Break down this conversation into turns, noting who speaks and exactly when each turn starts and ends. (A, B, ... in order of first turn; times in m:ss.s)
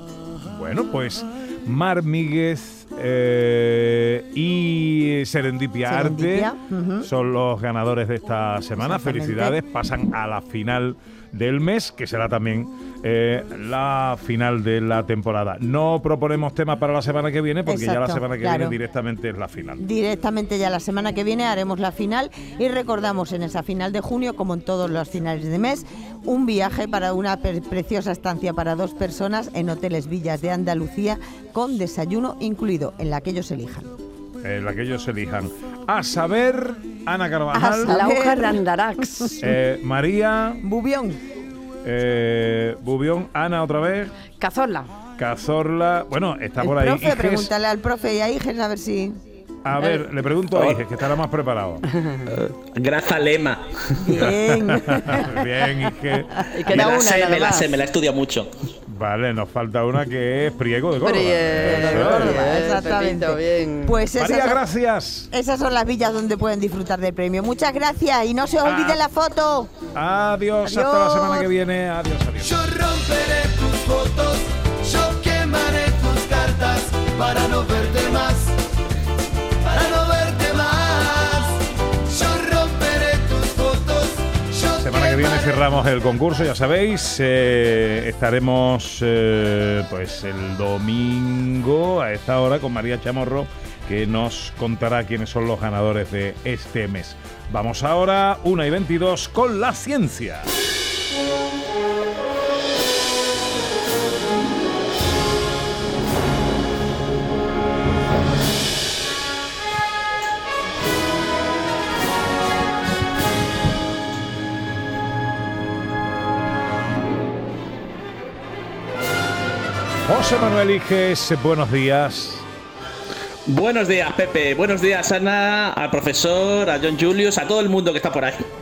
0:00.5-0:06.5 A
0:05.9-0:07.1 B
0:07.0-0:19.8 A
0:08.8-0:09.6 B
0:17.7-0:18.8 B
0:19.8-0:33.9 B
0:34.4-0:38.0 A
0:37.5-0:39.4 B
0:37.8-0:39.4 C
0:39.4-0:40.6 A
0:40.6-0:41.2 B
0:41.8-0:44.2 A
0:44.3-0:44.9 C
0:45.2-0:47.5 A
0:46.6-0:49.2 B
0:49.6-0:51.8 A
0:49.8-0:50.0 C
0:52.3-0:53.6 D
0:54.0-0:55.5 B
0:54.2-0:56.5 A
0:56.5-0:57.7 C
0:56.7-0:58.5 D
0:58.9-1:02.5 A
1:01.0-1:04.1 C
1:01.6-1:04.6 B
1:04.2-1:05.3 A
1:05.3-1:09.7 B
1:08.6-1:09.0 A
1:10.0-1:12.7 A
1:10.6-1:11.5 B
1:12.6-1:18.5 E
1:19.7-1:21.5 E
1:22.1-1:25.5 E
1:24.8-1:40.5 A
2:00.1-2:02.4 A
2:03.5-2:08.5 D